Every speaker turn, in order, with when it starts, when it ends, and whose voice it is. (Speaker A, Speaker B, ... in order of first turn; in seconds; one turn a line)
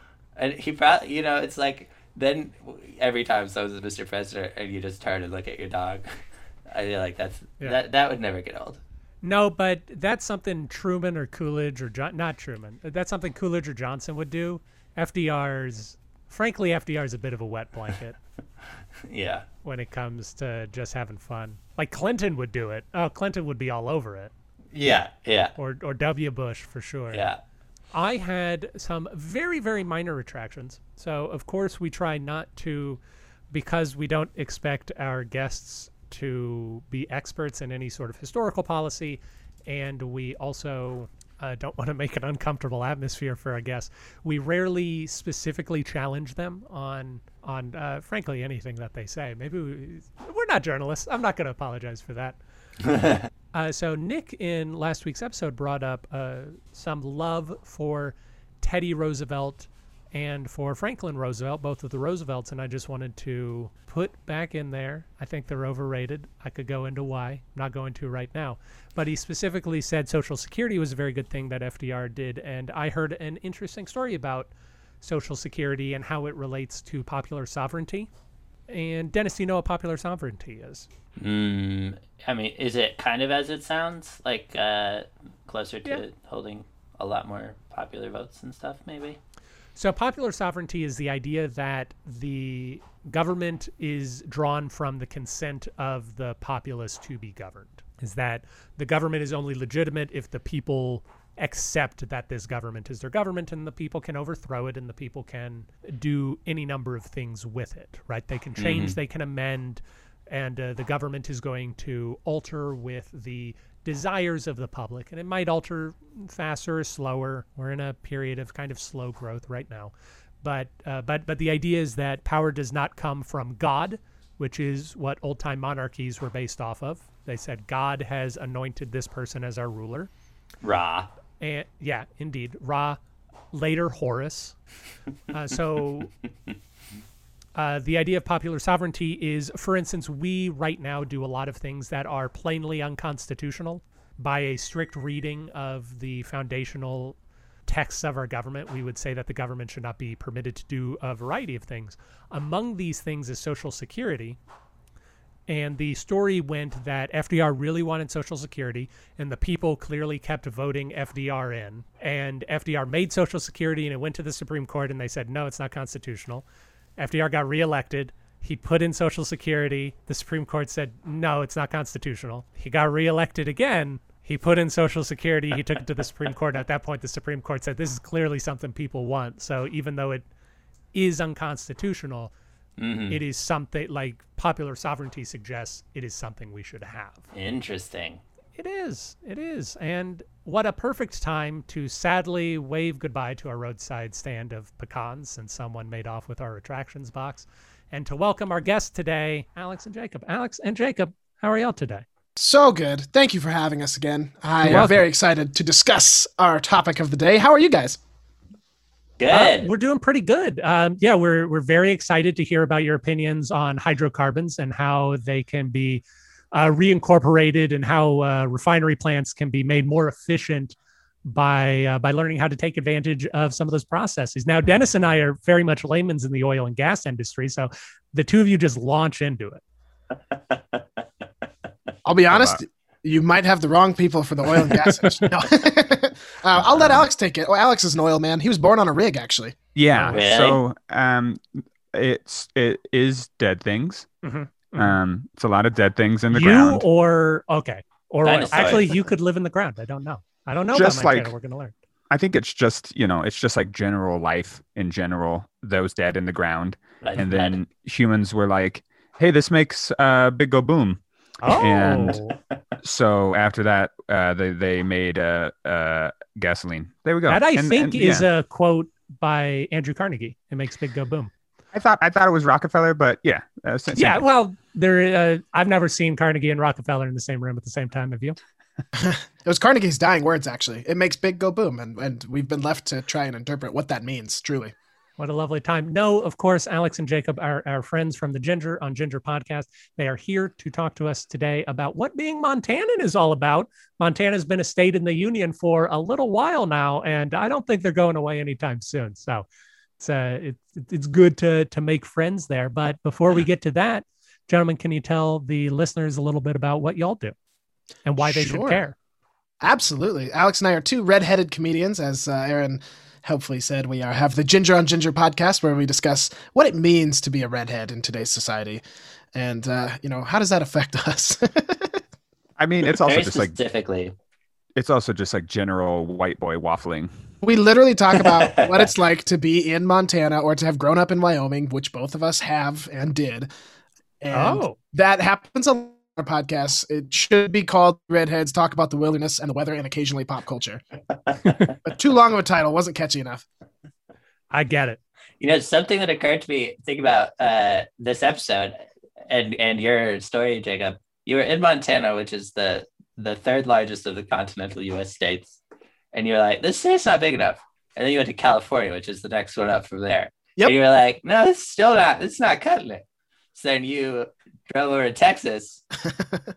Speaker A: 0.3-6.1
Speaker A: 6.7-8.8
Speaker B: 9.2-18.2
Speaker A: 19.0-19.4
Speaker B: 19.6-24.3
Speaker A: 24.7-25.5
Speaker B: 25.6-27.3
Speaker A: 27.1-27.4
Speaker B: 27.9-33.0
Speaker B: 33.5-52.4
Speaker B: 53.5-74.5
Speaker B: 75.0-78.1
Speaker B: 78.7-80.9
Speaker A: 81.2-89.2
Speaker B: 89.8-130.1
Speaker A: 108.6-109.0
Speaker A: 130.6-131.1
Speaker B: 131.4-133.0
Speaker B: 133.5-134.5
Speaker B: 135.3-136.1
Speaker B: 137.5-154.4
Speaker B: 155.5-166.4
Speaker B: 167.0-180.2
Speaker B: 180.9-182.3
Speaker A: 182.8-183.2
Speaker B: 183.1-187.2
Speaker A: 187.3-188.2
Speaker B: 188.6-202.0
Speaker C: 202.4-208.0
Speaker B: 204.6-205.0
Speaker A: 209.2-209.7
Speaker B: 209.3-229.6
Speaker A: 230.5-230.8
Speaker C: 232.0-239.5
Speaker D: 232.3-232.6
Speaker B: 234.8-235.3
Speaker D: 236.6-237.1
Speaker D: 239.7-244.1
Speaker A: 240.1-240.6
Speaker B: 244.2-245.0
Speaker D: 244.7-246.8
Speaker B: 246.3-251.7
Speaker A: 248.2-249.0
Speaker D: 250.7-251.3
Speaker D: 252.1-262.2
Speaker A: 257.0-257.6
Speaker B: 261.4-262.3
Speaker D: 262.8-268.3
Speaker B: 267.3-271.3
Speaker D: 271.7-274.2
Speaker B: 273.9-278.4
Speaker C: 278.9-284.7
Speaker B: 285.2-299.4
Speaker B: 300.0-307.3
Speaker B: 308.0-308.9
Speaker C: 308.2-308.8
Speaker C: 309.6-318.8
Speaker C: 319.3-322.0
Speaker D: 322.6-323.6
Speaker A: 322.9-324.1
Speaker D: 324.7-327.1
Speaker C: 327.4-333.5
Speaker C: 334.2-340.8
Speaker B: 334.3-334.8
Speaker C: 341.8-343.4
Speaker B: 344.5-345.0
Speaker A: 345.4-355.6
Speaker A: 356.1-363.0
Speaker A: 363.5-365.8
Speaker C: 366.1-366.4